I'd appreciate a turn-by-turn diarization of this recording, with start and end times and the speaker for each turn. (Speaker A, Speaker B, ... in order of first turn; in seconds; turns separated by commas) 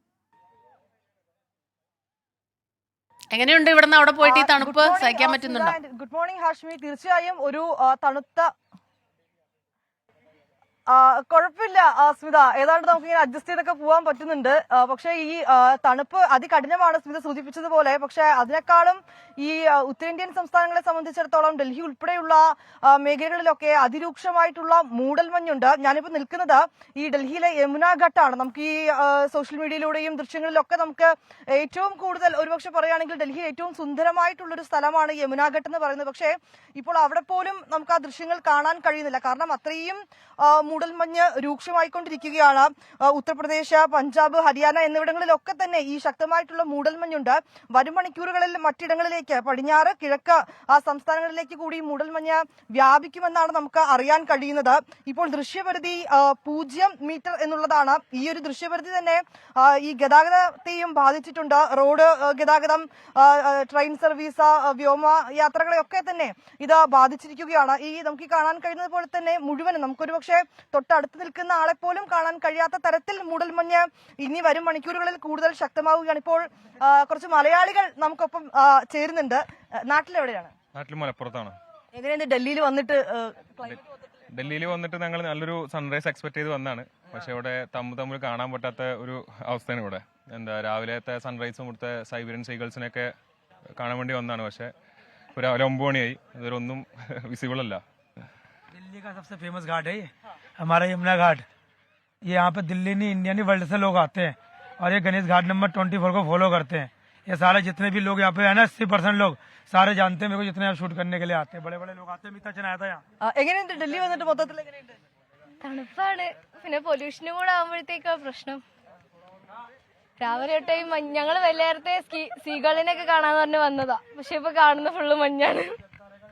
Speaker A: 3.3-5.8, Speaker B: 4.2-8.5, Speaker B: 10.9-80.5, Speaker C: 80.7-81.5, Speaker B: 81.9-83.8, Speaker C: 84.3-93.1, Speaker C: 93.8-94.7, Speaker C: 95.3-97.8, Speaker D: 98.7-101.4, Speaker D: 102.2-113.0, Speaker B: 113.2-114.8, Speaker E: 115.6-118.6, Speaker E: 120.2-125.7